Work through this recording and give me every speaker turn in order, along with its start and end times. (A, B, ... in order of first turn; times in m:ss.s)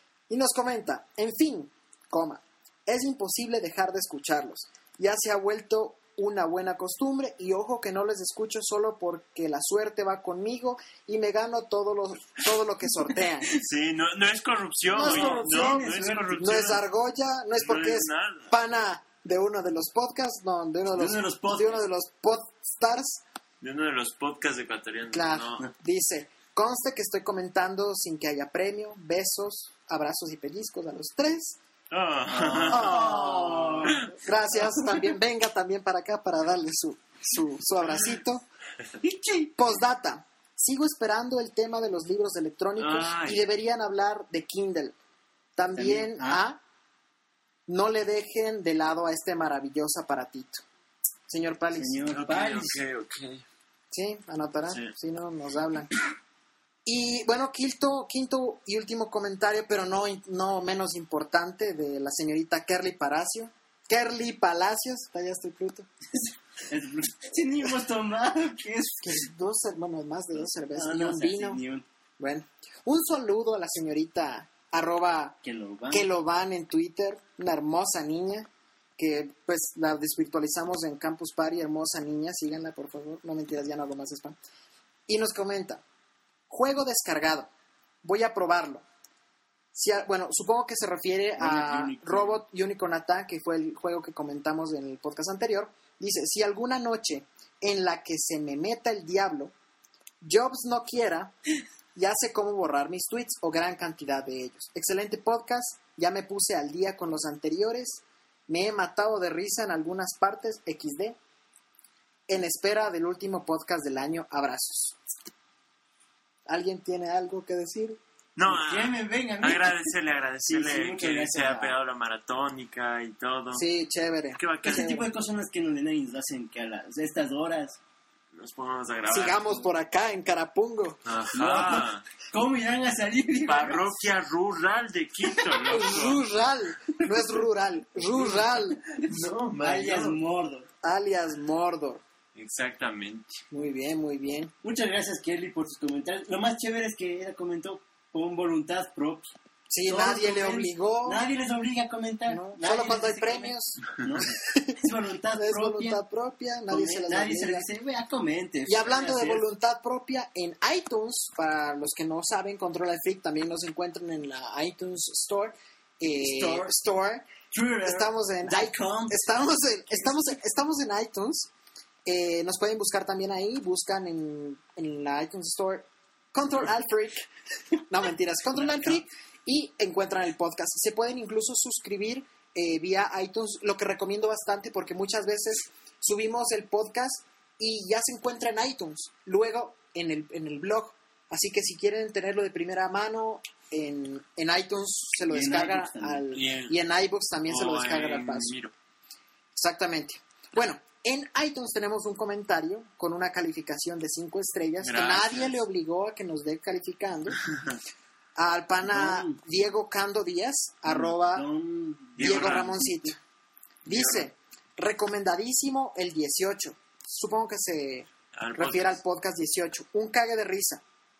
0:00.3-0:13.5 A
0:13.6-0:16.8 B
0:14.9-0:23.2 A
0:14.9-0:16.6 C
0:17.6-0:18.5 B
0:20.9-0:21.8 C
0:23.6-0:25.6 B
0:25.1-0:31.6 A
0:31.9-0:34.1 B
0:32.3-0:35.1 C
0:32.7-0:38.4 A
0:39.0-0:39.6 C
0:39.6-0:45.0 A
0:42.8-0:43.4 B
0:45.6-0:46.6 A
0:45.7-0:46.4 C
0:47.7-0:50.6 A
0:51.3-0:52.0 A
0:51.7-0:52.8 C
0:52.1-0:53.4 B
0:53.9-0:55.9 A
0:56.8-1:05.9 A
1:06.1-1:09.2 C
1:09.0-1:11.6 A
1:10.3-1:11.8 C
1:12.2-1:15.4 A
1:15.4-1:16.1 C
1:15.9-1:24.4 A
1:25.1-1:25.8 A
1:26.5-1:27.5 A
1:28.0-1:28.8 A
1:29.7-1:39.5 A
1:31.4-1:32.4 C
1:40.2-1:41.3 A
1:41.9-1:51.2 A
1:52.3-1:55.0 A
1:56.4-1:58.0 A
1:58.4-2:03.6 B
1:58.4-1:59.9 C
2:00.4-2:01.7 C
2:03.5-2:05.0 A
2:04.4-2:04.9 B
2:04.6-2:07.8 C
2:08.3-2:09.7 B
2:09.1-2:11.0 A
2:11.0-2:12.0 B
2:11.3-2:13.9 C
2:13.4-2:16.2 B
2:15.7-2:18.8 A
2:17.0-2:17.4 C
2:18.1-2:20.7 C
2:19.0-2:20.2 B
2:20.8-2:22.0 A
2:22.4-2:23.4 B
2:23.5-2:24.5 A
2:24.6-2:29.3 C
2:29.7-2:31.2 A
2:29.8-2:36.0 C
2:32.3-2:37.7 A
2:36.7-2:39.4 C
2:38.6-2:47.3 A
2:46.1-2:46.7 C
2:47.5-2:49.3 C
2:47.8-2:51.5 A
2:49.9-2:50.3 C
2:52.1-2:57.3 A
2:57.9-3:18.5 A
2:58.5-2:59.0 C
3:15.3-3:16.2 C
3:16.3-3:16.7 B
3:17.5-3:18.7 B
3:19.6-3:27.4 A
3:24.8-3:25.6 B
3:28.4-3:31.5 A
3:28.8-3:29.4 C
3:30.8-3:32.7 C
3:32.2-3:32.9 B
3:32.2-3:33.2 A
3:33.9-3:34.3 B
3:33.9-3:40.8 A
3:38.4-3:39.0 B